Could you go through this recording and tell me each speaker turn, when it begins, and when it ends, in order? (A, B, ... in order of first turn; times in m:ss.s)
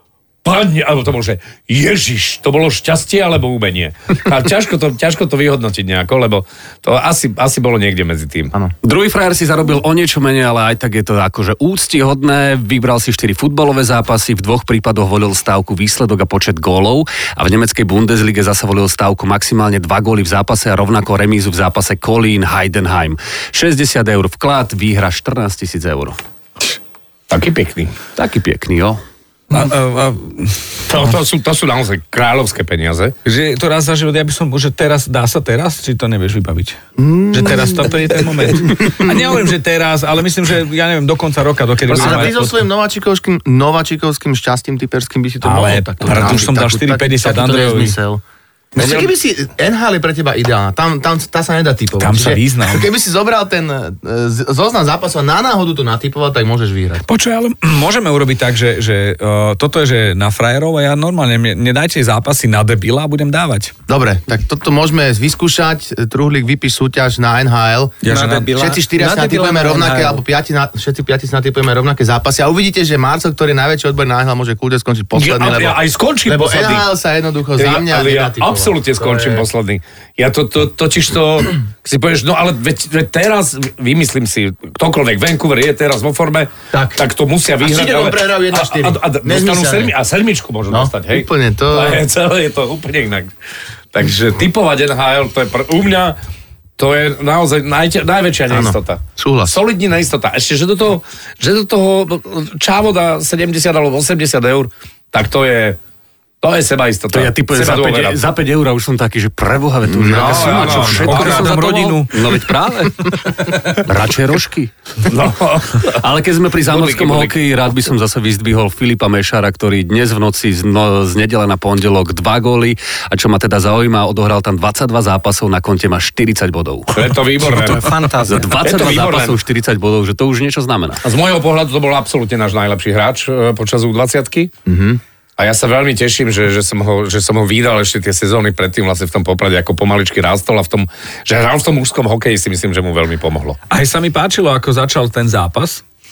0:00.4-0:08.5 A
0:08.8-0:26.2 B
0:27.3-0:28.0 A
0:28.2-0:29.0 B
0:29.5-0:31.0 C
0:30.9-0:33.1 A
0:33.2-0:36.8 C
0:37.0-0:37.9 D
0:37.3-0:42.6 C
0:41.9-0:48.2 D
0:45.4-0:48.0 C
0:48.8-0:57.0 D
0:52.0-0:52.9 C
0:57.1-1:03.7 C
1:03.9-1:08.0 D
1:08.0-1:08.5 C
1:08.1-1:10.2 E
1:08.5-1:19.5 D
1:15.2-1:16.8 A
1:17.6-1:33.3 A
1:26.7-1:27.0 D
1:27.6-1:29.9 D
1:30.7-1:32.0 D
1:33.9-1:36.2 A
1:36.8-1:45.8 A
1:38.5-1:39.6 D
1:46.4-1:48.2 A
1:47.1-1:54.7 B
1:49.9-1:51.2 D
1:50.1-1:51.5 A
1:50.9-1:52.5 C
1:55.1-1:56.0 A
1:55.9-2:07.2 B
1:56.6-1:57.4 A
2:07.0-2:07.9 A
2:07.5-2:08.6 E
2:08.3-2:11.0 B
2:08.6-2:09.4 A
2:11.0-2:14.5 A
2:14.7-2:15.0 D
2:15.4-2:23.6 A
2:23.7-2:25.8 C